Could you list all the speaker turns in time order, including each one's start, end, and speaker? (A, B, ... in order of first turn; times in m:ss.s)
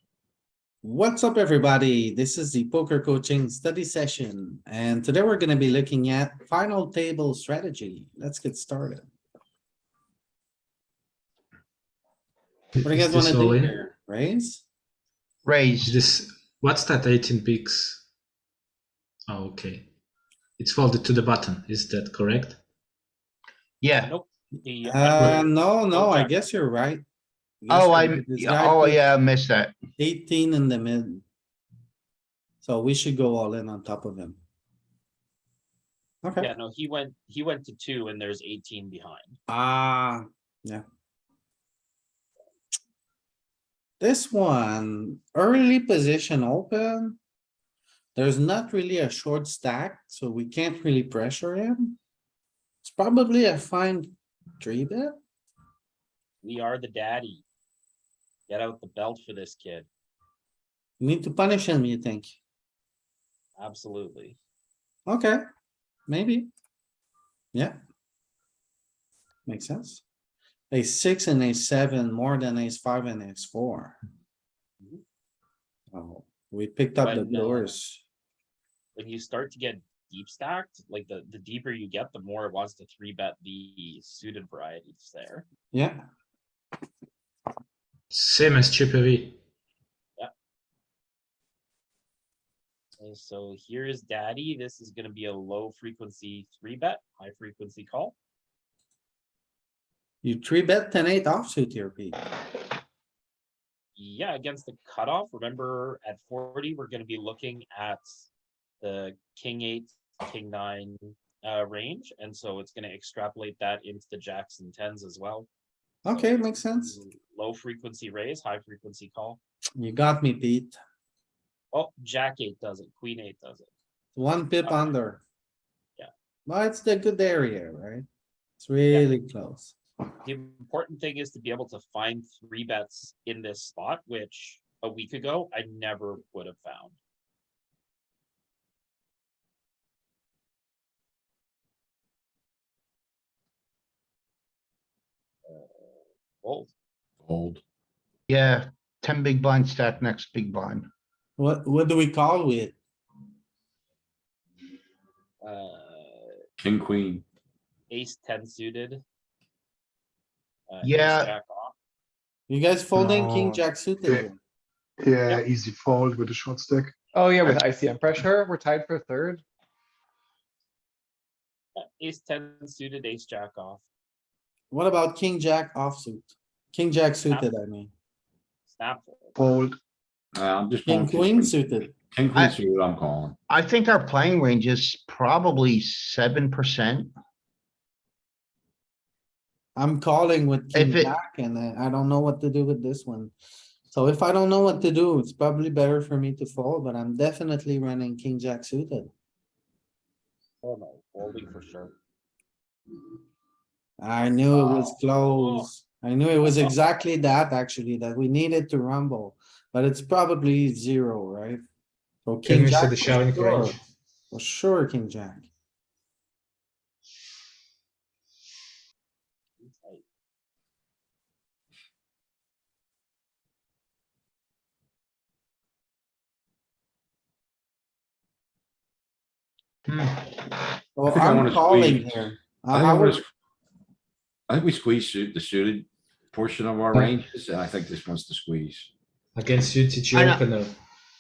0:00.8-0:09.1 A
0:12.8-0:13.8 B
0:12.8-0:14.6 A
0:15.4-0:16.0 C
0:15.8-0:18.0 B
0:19.2-0:19.8 B
0:20.6-0:22.6 B
0:23.8-0:24.1 C
0:23.9-0:26.5 D
0:24.8-0:27.0 A
0:25.2-0:25.4 B
0:27.6-0:29.1 A
0:27.7-0:29.7 C
0:30.0-0:31.2 A
0:32.6-0:34.4 A
0:36.2-0:36.5 A
0:36.4-0:39.4 D
0:39.5-0:40.8 A
0:44.0-0:47.2 A
0:48.1-0:52.0 A
0:52.8-0:55.1 A
0:56.4-0:57.4 D
0:58.5-0:59.9 D
1:01.0-1:02.4 A
1:03.6-1:04.4 D
1:05.0-1:05.4 A
1:06.1-1:06.5 A
1:09.4-1:10.0 A
1:10.7-1:14.0 A
1:15.9-1:18.0 A
1:17.0-1:17.8 D
1:19.0-1:25.4 D
1:25.7-1:26.0 A
1:28.1-1:29.4 B
1:33.0-1:38.1 D
1:40.2-1:42.2 A
1:44.0-1:48.3 D
1:48.8-1:55.5 D
1:56.0-1:57.0 A
1:56.1-1:59.4 D
1:59.8-2:00.8 A
2:01.7-2:03.7 D
2:04.1-2:05.2 A
2:04.6-2:05.0 D
2:06.4-2:08.0 A
2:08.6-2:09.7 A
2:10.2-2:17.0 D
2:25.4-2:26.7 D
2:27.2-2:27.6 E
2:28.3-2:30.9 C
2:31.4-2:32.8 A
2:35.4-2:36.4 D
2:36.6-2:37.2 E
2:37.9-2:39.0 D
2:40.7-2:41.7 D
2:40.8-2:41.3 C
2:42.5-2:44.4 A
2:43.0-2:44.2 F
2:45.0-2:46.9 F
2:47.1-2:49.4 G
2:51.8-2:53.8 D
2:54.7-2:57.9 A
2:58.7-2:59.4 D
2:59.4-2:59.7 F
3:00.3-3:01.6 E
3:00.8-3:01.9 A
3:02.1-3:03.4 E
3:03.5-3:07.1 C
3:09.8-3:13.3 A
3:10.7-3:11.1 C
3:13.9-3:19.1 A
3:20.6-3:21.9 D
3:24.0-3:31.6 A
3:24.5-3:25.7 D
3:26.4-3:26.8 D
3:32.2-3:33.8 A
3:32.4-3:33.8 B
3:34.3-3:35.5 A
3:39.6-3:40.0 D
3:49.9-3:50.4 C
3:51.0-3:53.2 A
3:51.1-3:53.3 E
3:54.5-3:58.9 E
3:59.4-4:00.7 B
4:00.1-4:00.4 C